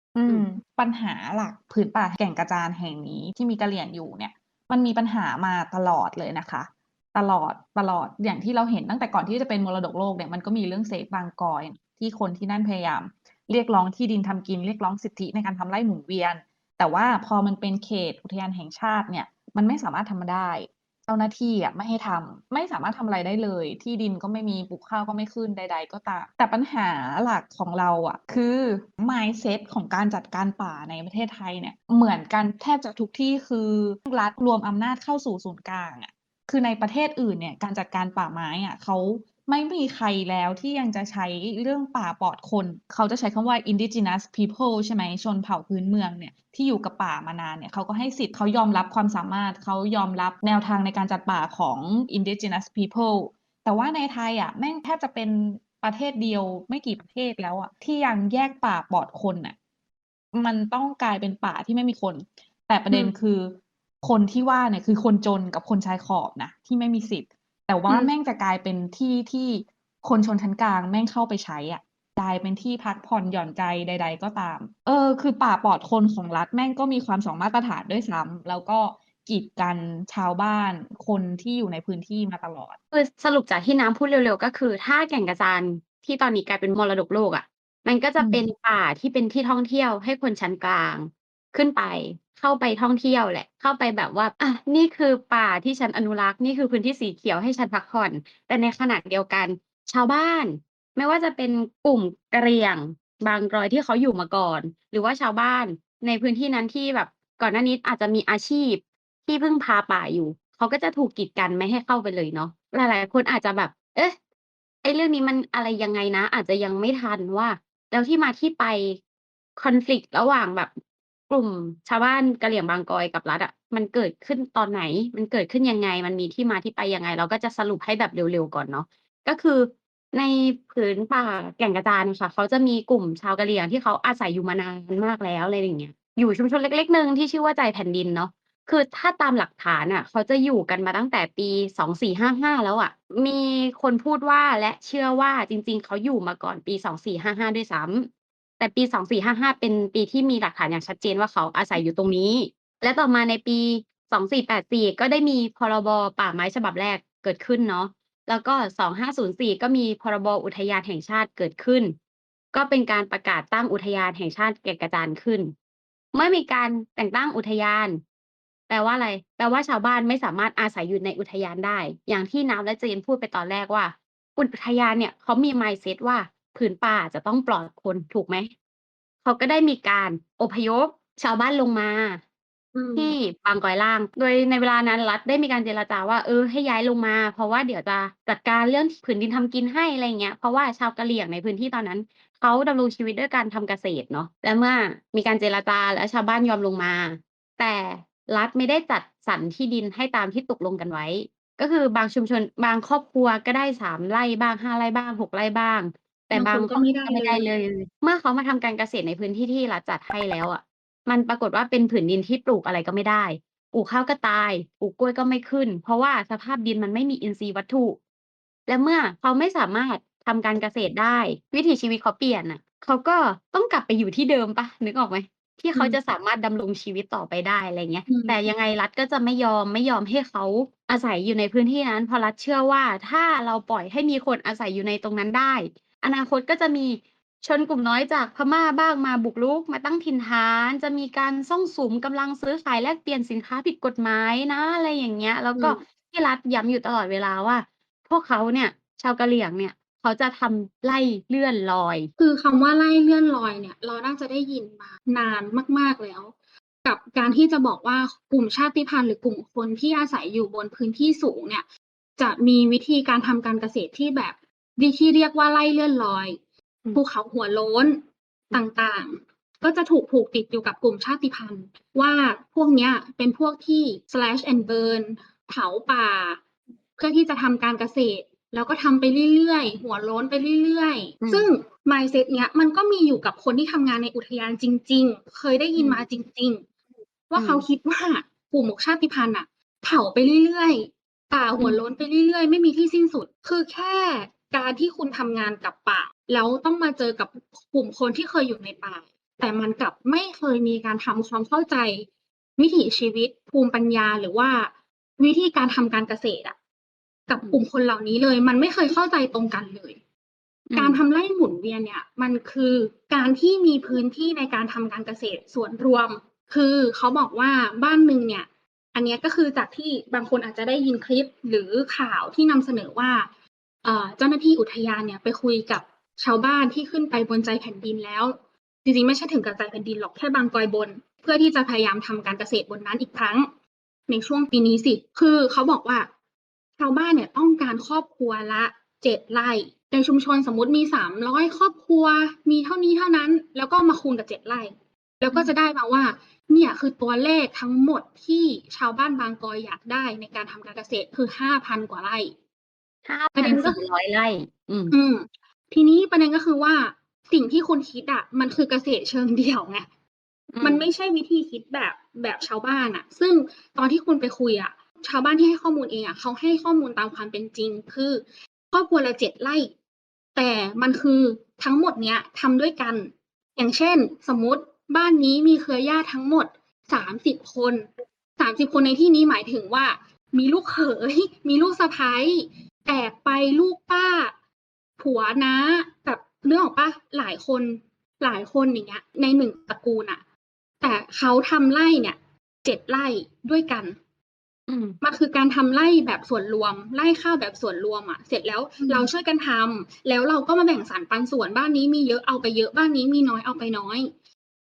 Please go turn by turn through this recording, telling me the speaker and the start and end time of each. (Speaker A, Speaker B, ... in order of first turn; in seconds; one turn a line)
Speaker A: 0.1-59.5
Speaker A: 60.3-82.8
Speaker B: 82.9-114.2
Speaker B: 114.8-119.0
Speaker B: 119.5-120.7
Speaker B: 121.3-161.9
Speaker B: 162.5-165.5
Speaker B: 166.1-168.0
Speaker B: 168.7-178.5
Speaker B: 179.2-182.2
Speaker C: 182.7-183.2
Speaker B: 182.9-218.0
Speaker C: 206.3-207.5
Speaker B: 218.7-252.1
Speaker C: 228.1-228.4
Speaker C: 252.2-256.3
Speaker C: 256.8-261.6
Speaker C: 262.2-266.4
Speaker C: 266.9-276.4
Speaker C: 277.0-286.6
Speaker B: 281.2-281.5
Speaker B: 285.8-286.0
Speaker C: 287.3-302.1
Speaker B: 287.4-287.6
Speaker C: 302.6-306.5
Speaker C: 307.3-310.0
Speaker B: 310.7-311.0
Speaker C: 310.8-323.3
Speaker C: 323.8-333.5
Speaker C: 334.1-336.1
Speaker C: 336.8-352.3
Speaker B: 353.1-355.0
Speaker C: 353.3-353.8
Speaker C: 354.9-359.9
Speaker B: 360.5-360.9
Speaker C: 360.6-369.7
Speaker C: 370.3-384.3
Speaker C: 385.0-390.2
Speaker C: 390.8-393.9
Speaker B: 394.7-395.0
Speaker C: 395.0-404.1
Speaker B: 398.8-399.1